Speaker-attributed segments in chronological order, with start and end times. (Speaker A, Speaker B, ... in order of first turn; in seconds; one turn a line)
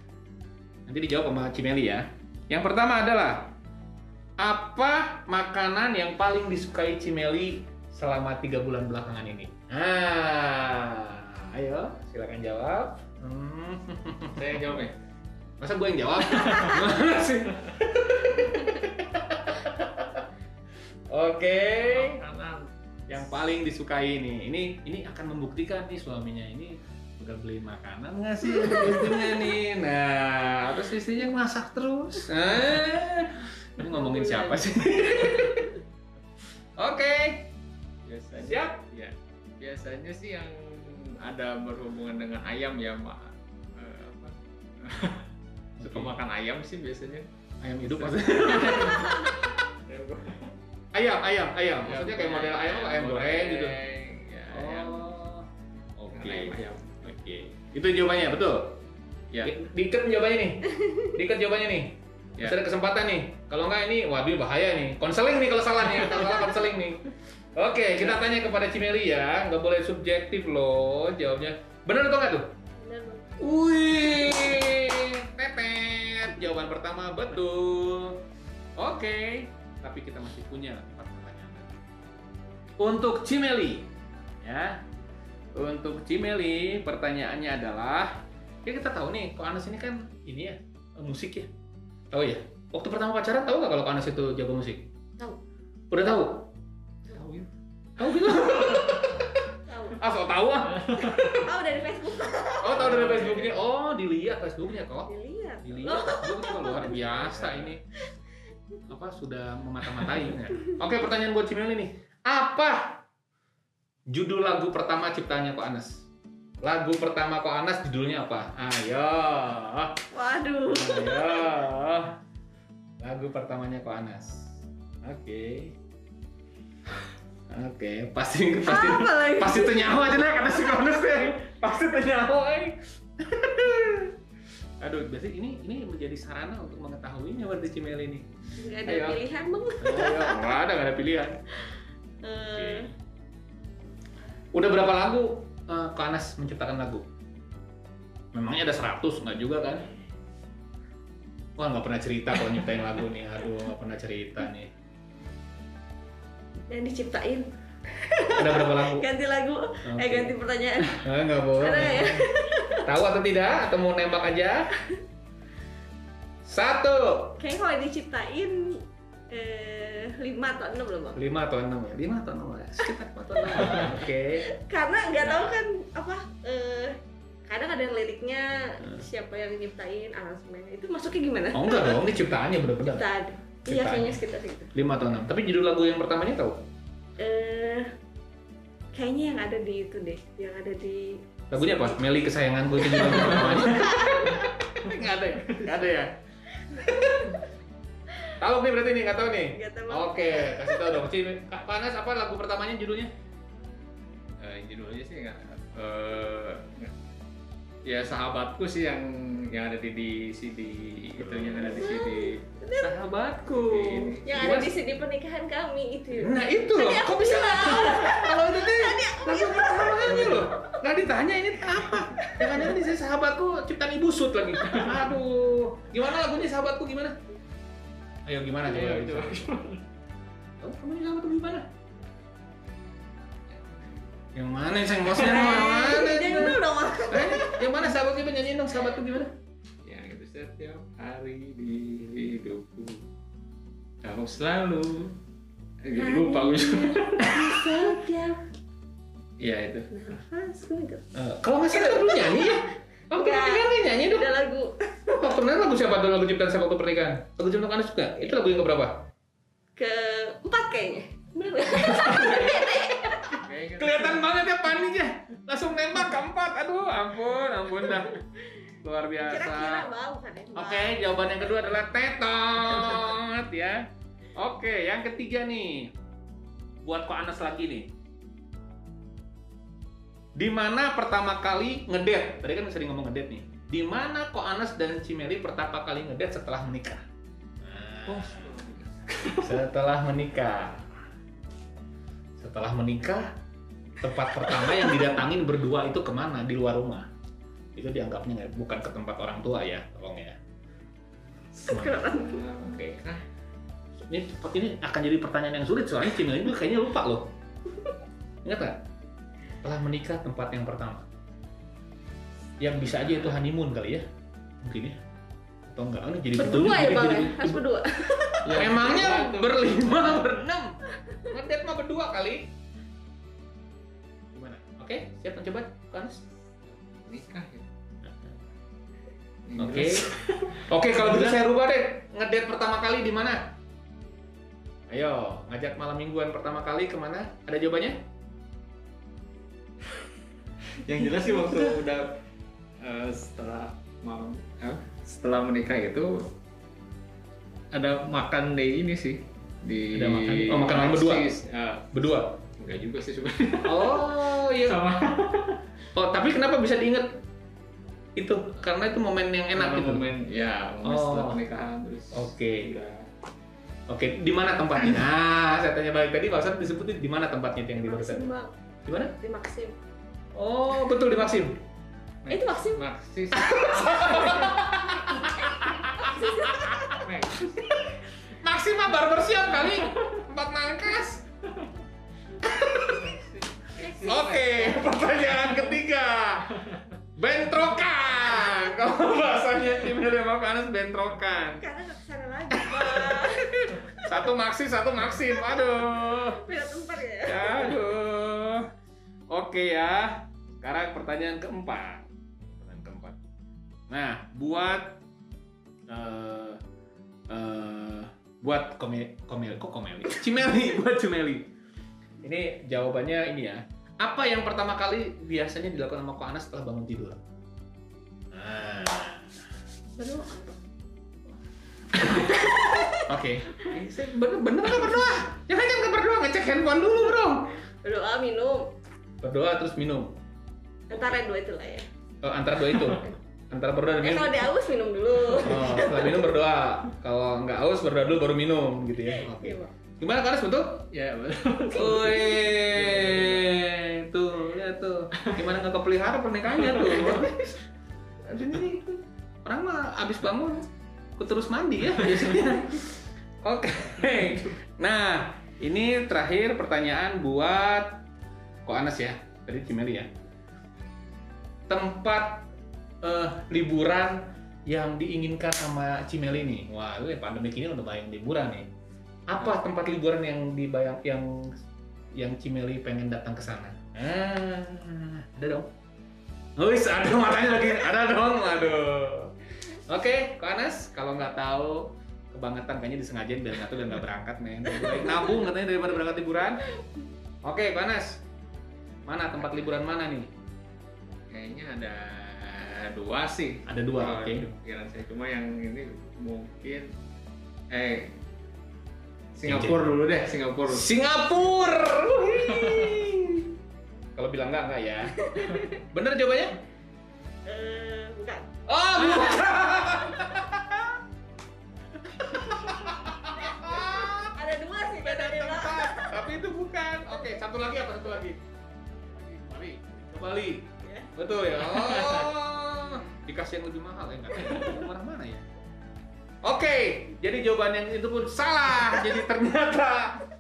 Speaker A: 0.9-3.5
Speaker A: 4.4-14.8
Speaker B: 14.3-14.9
Speaker A: 15.6-20.2
Speaker B: 16.3-16.8
Speaker A: 21.1-22.2
Speaker B: 21.9-22.7
Speaker A: 23.1-35.8
Speaker A: 36.8-37.5
Speaker B: 38.1-45.3
Speaker A: 38.5-38.8
Speaker A: 45.8-46.2
Speaker B: 45.8-47.3
Speaker A: 47.6-49.4
Speaker B: 47.8-50.5
Speaker A: 50.9-53.8
Speaker B: 51.9-55.1
Speaker A: 54.5-58.8
Speaker B: 56.1-57.0
Speaker A: 59.4-72.5
Speaker C: 72.8-73.3
Speaker A: 73.4-78.2
Speaker A: 78.8-81.8
Speaker A: 82.8-83.9
Speaker A: 84.4-84.8
Speaker A: 85.5-91.5
Speaker A: 92.1-94.9
Speaker A: 95.9-96.5
Speaker B: 97.1-97.5
Speaker A: 98.0-101.5
Speaker C: 99.7-100.0
Speaker C: 101.1-103.3
Speaker A: 102.6-105.1
Speaker B: 102.8-103.5
Speaker C: 105.1-107.2
Speaker A: 105.7-107.8
Speaker B: 107.4-107.7
Speaker A: 108.9-113.0
Speaker A: 114.1-116.0
Speaker A: 116.6-120.0
Speaker C: 120.1-121.5
Speaker A: 120.7-122.2
Speaker A: 123.0-124.5
Speaker A: 125.0-125.8
Speaker A: 127.5-134.1
Speaker C: 128.7-130.0
Speaker A: 134.8-138.3
Speaker C: 138.6-140.5
Speaker A: 138.8-139.2
Speaker A: 139.8-141.4
Speaker C: 142.2-142.9
Speaker A: 142.5-142.9
Speaker A: 144.5-147.1
Speaker A: 148.3-149.9
Speaker A: 151.6-154.7
Speaker C: 156.7-161.1
Speaker A: 158.3-159.1
Speaker A: 159.9-160.3
Speaker A: 160.9-164.7
Speaker C: 161.6-162.9
Speaker A: 166.4-167.4
Speaker C: 167.4-171.2
Speaker A: 171.2-174.5
Speaker C: 173.4-182.0
Speaker A: 175.2-175.4
Speaker A: 181.5-183.1
Speaker C: 182.8-184.7
Speaker A: 183.7-184.1
Speaker A: 184.7-186.6
Speaker C: 187.2-187.9
Speaker C: 188.9-192.0
Speaker A: 191.5-196.1
Speaker C: 193.0-194.5
Speaker B: 193.0-193.7
Speaker A: 196.7-197.4
Speaker A: 198.4-203.1
Speaker C: 199.5-201.0
Speaker B: 204.4-206.9
Speaker B: 207.9-212.4
Speaker C: 211.7-212.9
Speaker A: 212.8-214.7
Speaker B: 213.7-214.2
Speaker C: 214.2-220.8
Speaker A: 216.1-227.2
Speaker C: 222.2-222.5
Speaker A: 228.3-229.5
Speaker B: 228.6-229.8
Speaker A: 230.6-231.7
Speaker B: 233.5-234.0
Speaker A: 234.3-239.3
Speaker C: 235.2-237.7
Speaker B: 239.8-243.1
Speaker B: 244.0-245.2
Speaker B: 245.8-247.4
Speaker C: 246.0-248.4
Speaker B: 249.4-249.9
Speaker C: 249.9-251.1
Speaker A: 251.1-254.3
Speaker C: 251.8-252.4
Speaker C: 253.1-255.3
Speaker A: 255.1-259.1
Speaker C: 259.8-263.4
Speaker A: 262.0-262.5
Speaker B: 263.4-264.2
Speaker A: 263.8-268.2
Speaker A: 268.8-269.9
Speaker C: 269.3-271.0
Speaker A: 270.6-275.9
Speaker A: 276.8-277.9
Speaker A: 280.4-287.1
Speaker A: 287.6-288.6
Speaker B: 288.1-289.6
Speaker A: 289.4-290.9
Speaker A: 292.4-293.3
Speaker A: 294.0-297.1
Speaker A: 297.8-300.4
Speaker B: 301.6-303.2
Speaker C: 301.6-302.4
Speaker A: 301.7-302.0
Speaker A: 304.1-307.3
Speaker A: 308.4-308.8
Speaker A: 309.6-311.1
Speaker A: 312.6-314.1
Speaker B: 313.0-313.3
Speaker A: 314.6-315.0
Speaker A: 315.7-317.6
Speaker C: 316.4-318.5
Speaker A: 318.1-322.5
Speaker B: 318.4-320.2
Speaker A: 324.3-326.2
Speaker B: 326.6-327.7
Speaker A: 328.0-328.4
Speaker B: 329.5-331.4
Speaker A: 329.6-330.1
Speaker A: 330.7-333.5
Speaker A: 334.9-338.0
Speaker B: 340.7-342.2
Speaker B: 342.8-346.2
Speaker B: 347.7-355.6
Speaker A: 349.9-351.3
Speaker A: 351.9-352.3
Speaker A: 353.7-354.8
Speaker A: 355.9-357.2
Speaker A: 358.2-360.0
Speaker B: 359.6-363.1
Speaker A: 360.8-361.4
Speaker A: 362.1-362.8
Speaker A: 363.9-368.3
Speaker C: 367.8-368.5
Speaker A: 368.9-369.1
Speaker C: 369.2-369.8
Speaker A: 370.3-371.6
Speaker B: 372.2-374.6
Speaker C: 372.3-372.9
Speaker A: 373.4-377.0
Speaker C: 375.1-377.1
Speaker B: 376.9-378.1
Speaker A: 378.3-381.2
Speaker A: 382.4-383.1
Speaker B: 382.8-385.7
Speaker C: 383.8-384.8
Speaker A: 384.1-391.6
Speaker C: 391.6-394.1
Speaker A: 392.5-396.4
Speaker C: 396.4-397.7
Speaker A: 397.2-398.7
Speaker A: 399.3-403.2
Speaker A: 403.9-405.0
Speaker A: 405.9-406.6
Speaker A: 407.3-411.5
Speaker A: 412.2-417.2
Speaker A: 418.3-419.3
Speaker C: 420.0-420.6
Speaker A: 422.0-427.6
Speaker C: 422.1-423.1
Speaker C: 427.8-428.7
Speaker A: 429.2-430.2
Speaker C: 430.9-431.9
Speaker A: 432.2-434.5
Speaker C: 434.0-436.2
Speaker A: 435.4-440.8
Speaker C: 439.1-439.7
Speaker B: 440.9-443.5
Speaker A: 441.7-447.6
Speaker B: 446.7-447.3
Speaker A: 448.2-448.9
Speaker A: 449.4-450.7
Speaker A: 451.2-458.0
Speaker A: 458.7-460.1
Speaker A: 461.7-462.5
Speaker A: 463.0-468.7
Speaker A: 469.3-471.6
Speaker A: 472.1-475.7
Speaker A: 476.6-486.7
Speaker A: 487.4-488.2
Speaker A: 489.1-490.3
Speaker B: 491.3-496.9
Speaker A: 493.7-494.5
Speaker B: 497.7-498.1
Speaker B: 499.4-500.9
Speaker A: 499.5-499.8
Speaker A: 500.7-503.5
Speaker B: 502.6-502.9
Speaker A: 504.2-506.6
Speaker C: 505.2-505.7
Speaker C: 507.5-509.5
Speaker A: 508.7-511.0
Speaker A: 512.1-514.3
Speaker C: 513.4-516.2
Speaker A: 514.9-518.4
Speaker B: 519.1-519.6
Speaker A: 519.4-525.5
Speaker C: 520.8-521.1
Speaker B: 521.7-522.3
Speaker A: 526.4-530.2